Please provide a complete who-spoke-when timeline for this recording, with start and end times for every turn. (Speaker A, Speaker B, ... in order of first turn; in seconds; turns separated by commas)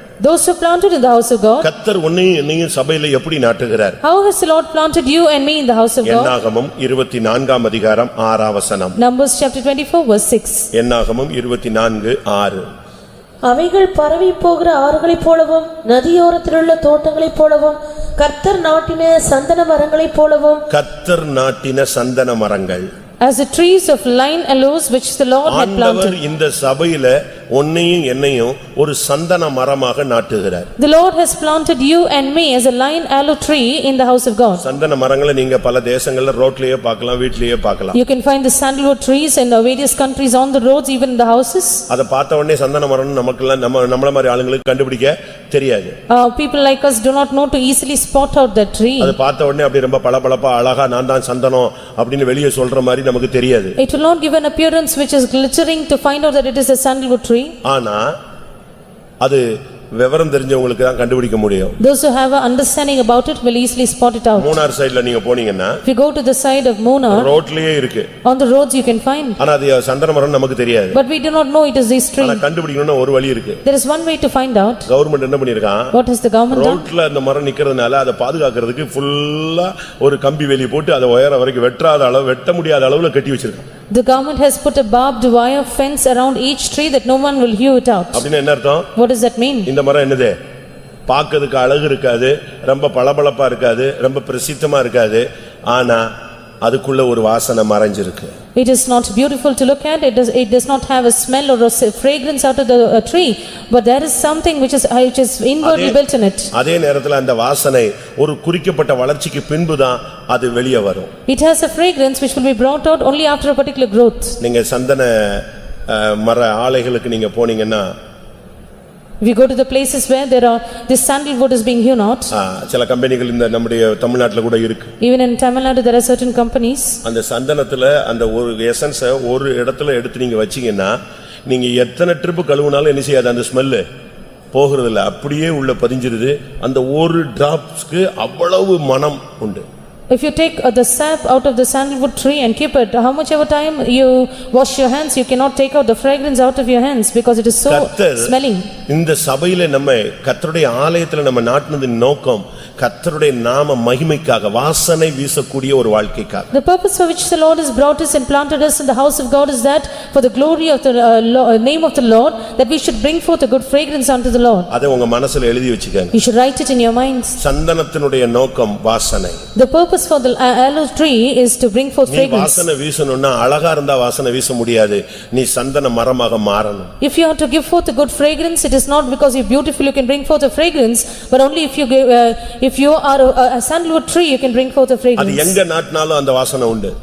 Speaker A: 0.2-1.7, Speaker B: 1.6-4.0, Speaker A: 4.0-6.3, Speaker B: 6.0-9.0, Speaker A: 9.0-10.7, Speaker B: 10.7-12.7, Speaker C: 13.4-20.6, Speaker B: 20.7-22.9, Speaker A: 23.2-26.2, Speaker B: 25.5-30.7, Speaker A: 30.8-34.6, Speaker B: 34.6-38.0, Speaker A: 37.9-41.9, Speaker B: 41.9-46.0, Speaker A: 46.1-49.1, Speaker B: 49.0-53.8, Speaker A: 53.8-57.5, Speaker B: 57.6-58.1, Speaker B: 60.0-61.8, Speaker A: 61.8-64.6, Speaker B: 64.4-65.8, Speaker A: 65.8-67.3, Speaker B: 67.1-68.1, Speaker A: 68.2-69.4, Speaker B: 69.4-71.0, Speaker A: 70.9-72.4, Speaker B: 72.2-73.6, Speaker A: 73.7-74.9, Speaker B: 74.9-76.0, Speaker A: 75.9-76.8, Speaker B: 76.5-83.7, Speaker A: 83.9-88.2, Speaker B: 88.1-88.9, Speaker A: 89.0-89.7, Speaker B: 89.7-90.3, Speaker B: 91.1-96.1, Speaker B: 96.6-98.3, Speaker A: 98.5-106.5, Speaker B: 105.6-106.0, Speaker B: 106.5-111.1, Speaker A: 111.3-114.4, Speaker B: 114.4-117.9, Speaker A: 119.2-122.3, Speaker B: 122.3-124.9, Speaker A: 125.0-127.0, Speaker B: 127.0-130.9, Speaker B: 131.5-133.8, Speaker B: 134.5-139.7, Speaker A: 140.1-148.7, Speaker B: 147.7-148.3, Speaker B: 148.9-156.5, Speaker A: 156.5-164.7, Speaker B: 164.7-166.1, Speaker A: 166.1-167.4, Speaker B: 167.4-169.4, Speaker A: 169.6-172.7, Speaker B: 172.1-176.9, Speaker A: 177.0-185.6, Speaker B: 185.2-186.9